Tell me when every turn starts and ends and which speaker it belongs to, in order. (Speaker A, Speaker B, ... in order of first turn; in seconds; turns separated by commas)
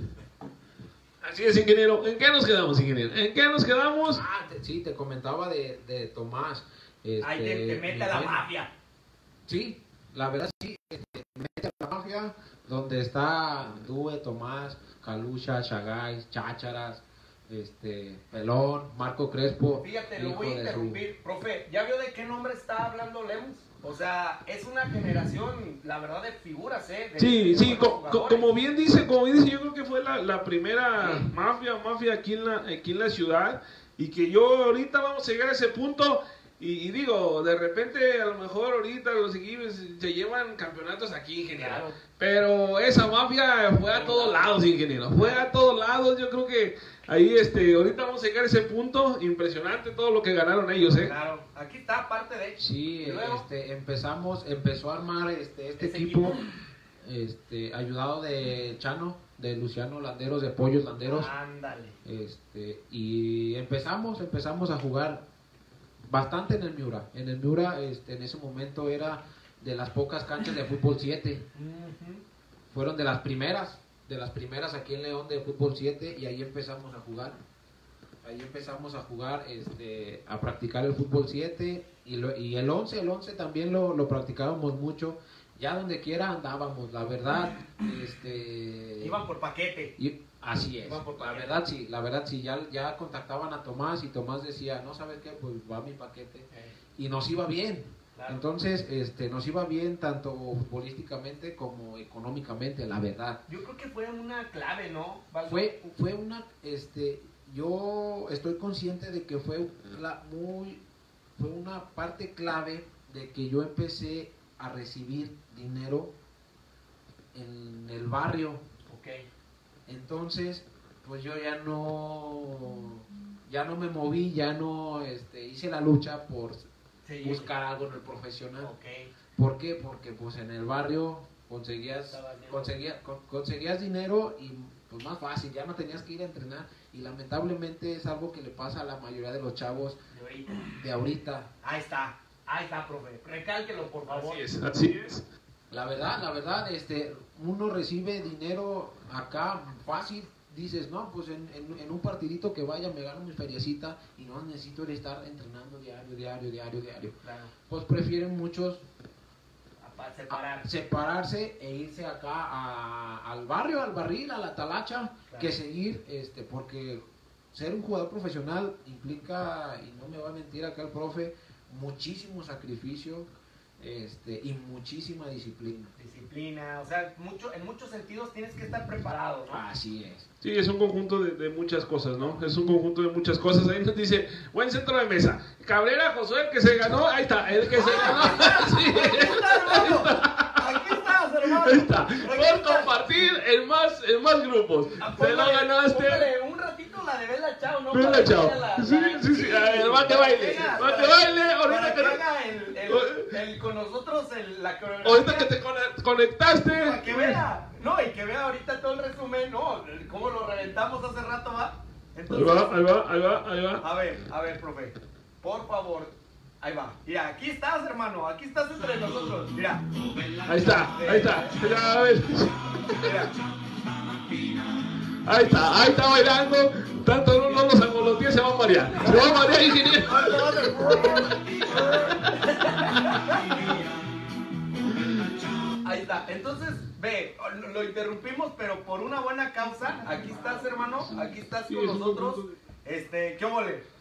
Speaker A: 1.2-4.2, Speaker B: 4.1-8.4, Speaker C: 7.2-8.7, Speaker B: 9.5-21.0, Speaker C: 19.8-28.5, Speaker A: 27.2-51.1, Speaker C: 31.0-31.3, Speaker C: 41.5-42.0, Speaker C: 43.9-44.6, Speaker C: 45.1-45.5, Speaker C: 51.0-53.5, Speaker B: 52.6-56.4, Speaker C: 55.8-56.5, Speaker B: 57.0-61.3, Speaker C: 61.0-62.0, Speaker B: 62.0-65.3, Speaker B: 66.1-71.5, Speaker C: 71.5-72.2, Speaker B: 72.7-77.4, Speaker B: 78.2-89.2, Speaker C: 89.0-89.9, Speaker B: 90.0-103.4, Speaker C: 90.8-91.5, Speaker C: 96.5-96.8, Speaker C: 98.2-98.4, Speaker C: 103.5-105.7, Speaker B: 105.5-110.8, Speaker B: 111.4-116.1, Speaker B: 117.3-118.6, Speaker C: 118.9-119.3, Speaker B: 119.9-126.7, Speaker C: 127.1-127.5, Speaker B: 127.2-128.7, Speaker C: 128.6-129.1, Speaker B: 129.4-140.0, Speaker C: 132.1-132.7, Speaker C: 140.1-140.7, Speaker B: 140.7-141.5, Speaker C: 141.6-144.5, Speaker A: 144.1-145.2, Speaker B: 145.7-158.8, Speaker C: 157.2-157.5, Speaker C: 159.8-160.7, Speaker B: 160.3-167.0, Speaker C: 165.3-165.5, Speaker B: 167.5-173.3, Speaker B: 173.8-175.9, Speaker C: 176.0-179.6, Speaker B: 179.5-180.3, Speaker A: 180.4-196.3, Speaker C: 187.7-193.4, Speaker C: 195.0-205.5, Speaker A: 197.9-202.2, Speaker A: 202.9-203.4, Speaker A: 205.0-207.4, Speaker C: 206.8-212.8, Speaker A: 212.3-213.8, Speaker C: 213.8-219.8, Speaker A: 220.4-223.1, Speaker C: 220.6-222.0, Speaker C: 222.9-223.4, Speaker A: 225.2-230.4, Speaker C: 227.3-227.8, Speaker C: 229.0-229.4, Speaker C: 230.0-233.9, Speaker A: 231.8-233.8, Speaker A: 234.8-235.4, Speaker C: 235.8-243.8, Speaker A: 241.2-242.6